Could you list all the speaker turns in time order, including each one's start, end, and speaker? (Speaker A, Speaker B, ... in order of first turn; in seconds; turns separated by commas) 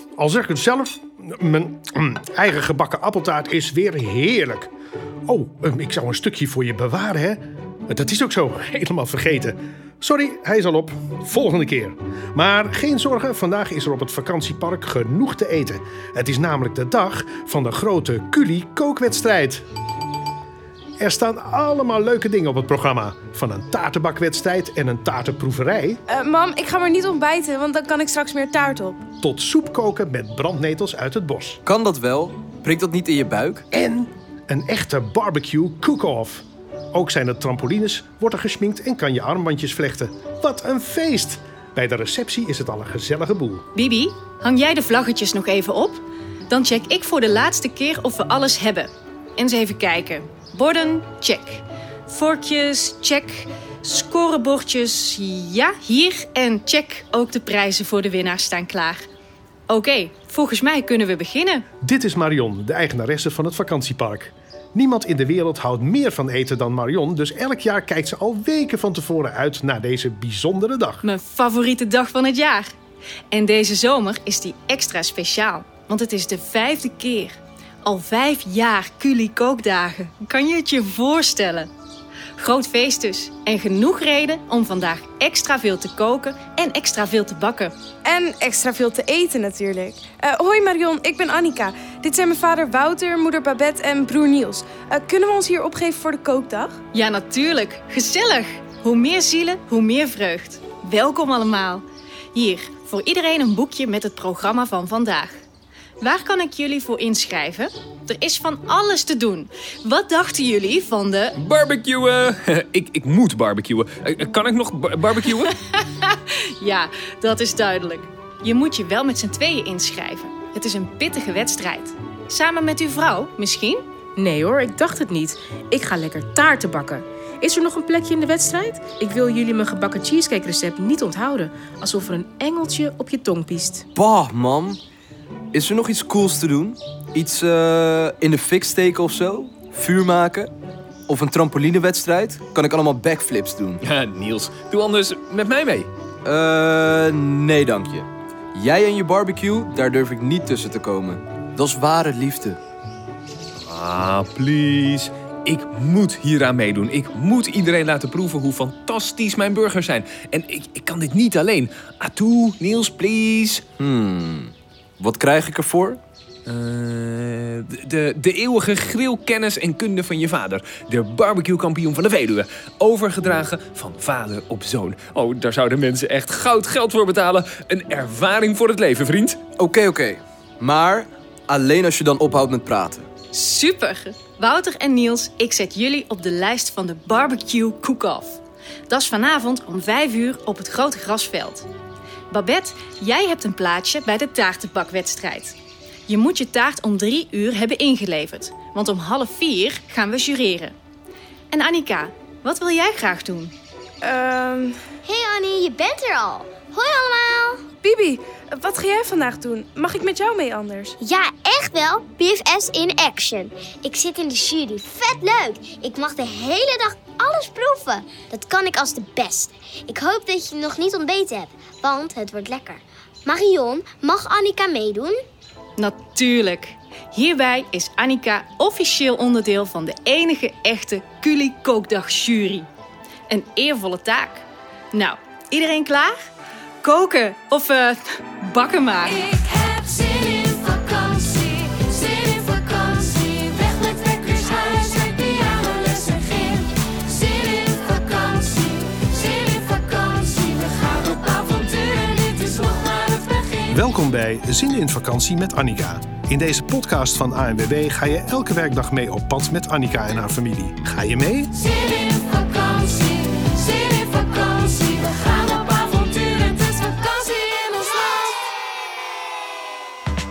Speaker A: 0.2-4.7, Speaker A: 5.3-19.6, Speaker A: 21.0-26.0, Speaker B: 26.1-29.0, Speaker A: 29.2-31.6, Speaker C: 31.6-33.6, Speaker A: 33.7-43.6, Speaker D: 43.7-59.0, Speaker D: 59.7-61.6, Speaker A: 61.8-71.0, Speaker D: 71.0-72.7, Speaker D: 73.3-81.7, Speaker D: 82.4-87.7, Speaker B: 88.0-96.8, Speaker D: 96.9-105.3, Speaker D: 106.0-111.3, Speaker E: 111.3-115.5, Speaker D: 115.9-123.8, Speaker F: 124.2-133.8, Speaker C: 133.9-134.8, Speaker C: 135.5-140.5, Speaker C: 141.1-143.8, Speaker E: 143.8-145.9, Speaker C: 146.2-152.6, Speaker E: 153.6-163.6, Speaker C: 163.8-166.0, Speaker E: 166.5-179.4, Speaker C: 179.6-183.1, Speaker D: 183.3-191.7, Speaker D: 192.3-195.6, Speaker D: 196.1-200.7, Speaker D: 201.5-203.5, Speaker B: 204.0-204.8, Speaker G: 205.0-207.6, Speaker B: 207.8-210.9, Speaker G: 211.0-225.1, Speaker D: 225.8-232.7, Speaker D: 233.3-236.2, Speaker D: 236.8-239.4, Speaker H: 240.5-240.9, Speaker H: 242.8-246.4, Speaker H: 247.3-248.2, Speaker H: 248.9-253.4, Speaker A: 253.7-261.6, Speaker H: 261.9-268.1